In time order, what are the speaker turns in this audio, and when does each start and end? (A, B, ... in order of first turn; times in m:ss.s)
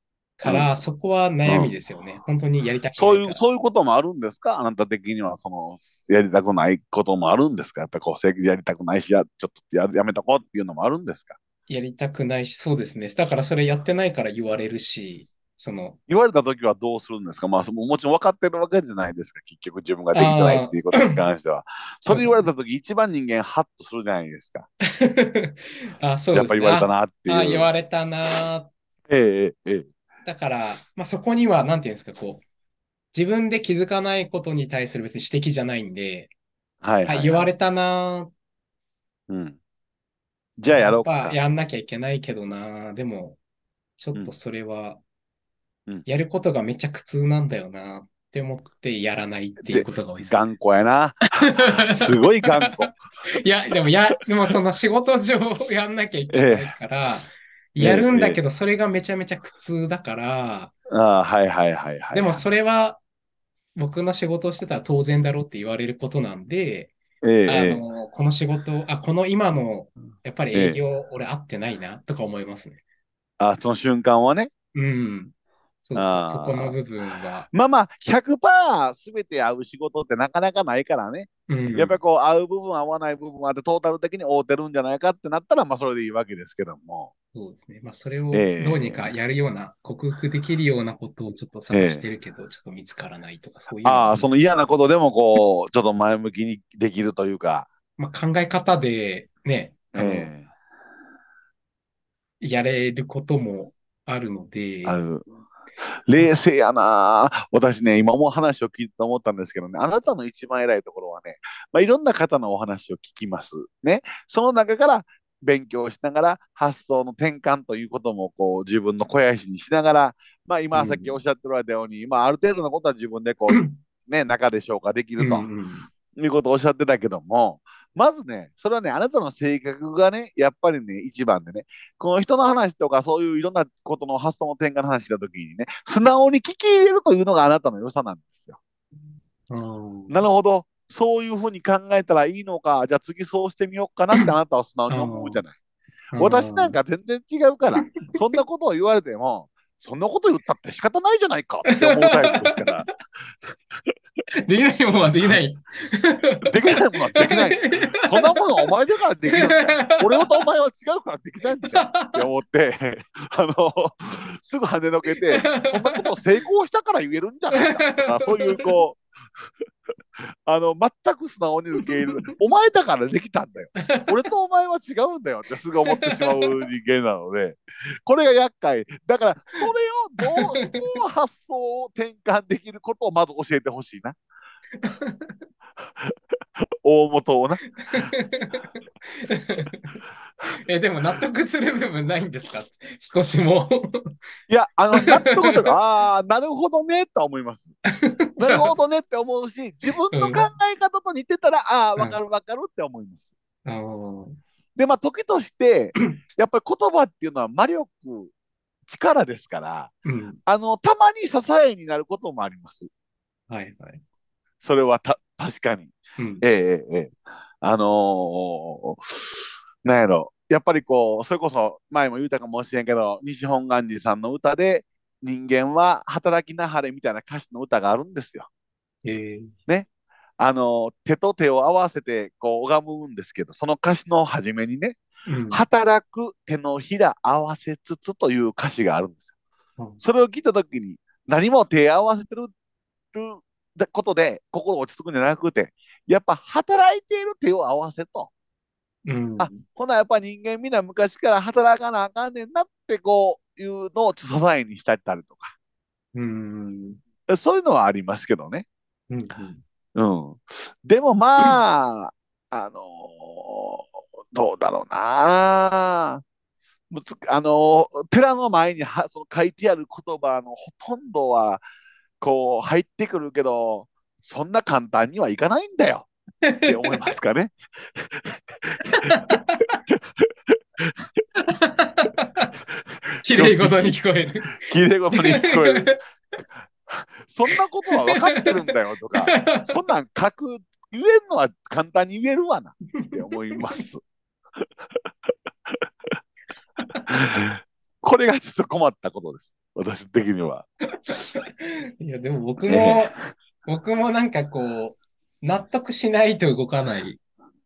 0:00.4-0:03.4 A
0:01.5-0:01.7 B
0:03.0-0:11.4 B
0:11.7-0:16.0 A
0:16.1-0:24.7 B
0:20.1-0:21.2 A
0:22.1-0:22.4 A
0:24.9-0:28.7 A
0:26.3-0:27.7 B
0:29.1-0:29.9 B
0:30.2-0:32.4 A
0:33.1-0:36.3 A
0:36.8-0:37.5 B
0:37.0-0:38.3 A
0:39.3-0:39.6 B
0:40.6-0:41.4 B
0:40.7-0:43.4 A
0:44.0-0:45.0 A
0:46.1-0:50.4 A
0:49.6-0:53.0 B
0:51.4-1:00.7 A
0:56.3-0:56.8 B
0:57.8-0:58.4 B
1:00.9-1:02.4 B
1:02.1-1:03.0 A
1:03.8-1:07.0 A
1:07.2-1:07.8 B
1:07.5-1:12.8 A
1:10.5-1:10.8 B
1:13.4-1:14.5 B
1:14.7-1:15.3 A
1:15.8-1:17.5 A
1:16.0-1:16.8 B
1:17.5-1:27.1 B
1:21.5-1:22.0 A
1:27.3-1:34.2 A
1:28.3-1:29.1 B
1:31.7-1:32.0 B
1:33.8-1:37.7 B
1:38.0-1:40.3 A
1:40.0-1:40.5 B
1:42.4-1:45.0 A
1:44.8-1:45.3 B
1:46.1-2:05.5 B
2:00.7-2:01.2 A
2:05.2-2:05.9 A
2:06.2-2:18.6 B
2:19.5-2:20.2 A
2:20.1-2:25.5 B
2:24.9-2:25.4 A
2:26.1-2:26.8 A
2:26.2-2:32.9 B
2:31.6-2:32.8 A
2:34.4-2:36.5 A
2:36.4-2:49.0 B
2:37.1-2:38.7 A
2:39.3-2:40.4 A
2:41.6-2:42.2 A
2:45.2-2:46.1 A
2:47.5-2:48.8 A
2:50.2-3:04.2 B
2:53.8-2:54.2 A
2:55.9-2:56.5 A
3:00.2-3:01.0 A
3:04.8-3:05.4 A
3:06.8-3:08.1 B
3:07.9-3:14.2 A
3:14.5-3:17.8 B
3:15.0-3:15.7 A
3:17.9-3:18.7 A
3:18.4-3:23.3 B
3:20.1-3:20.5 A
3:23.6-3:24.4 A
3:24.8-3:28.3 B
3:28.9-3:29.9 B
3:30.0-3:30.4 A
3:30.5-3:32.9 B
3:33.5-3:34.0 A
3:34.6-3:39.2 B
3:36.2-3:36.4 A
3:39.8-3:48.5 B
3:49.0-3:49.5 A
3:50.4-3:55.0 B
3:55.3-3:55.6 A
3:55.5-3:59.3 B
3:59.8-4:00.0 A
4:00.0-4:02.5 B
4:03.1-4:08.3 B
4:09.0-4:09.6 A
4:09.4-4:15.5 B
4:16.1-4:17.0 A
4:17.3-4:18.6 B
4:19.1-4:19.6 A
4:20.0-4:26.2 B
4:26.9-4:31.6 B
4:32.2-4:36.1 B
4:36.4-4:37.1 A
4:36.6-4:41.0 B
4:38.9-4:39.8 A
4:41.5-4:42.5 A
4:43.2-4:44.6 A
4:43.3-4:44.0 B
4:44.5-4:45.9 B
4:45.2-4:46.0 A
4:46.9-4:54.0 B
4:48.1-4:48.5 A
4:49.2-4:49.7 A
4:53.0-4:53.2 A
4:56.8-4:57.0 A
4:57.1-5:00.7 B
5:01.0-5:07.2 A
5:02.7-5:03.1 B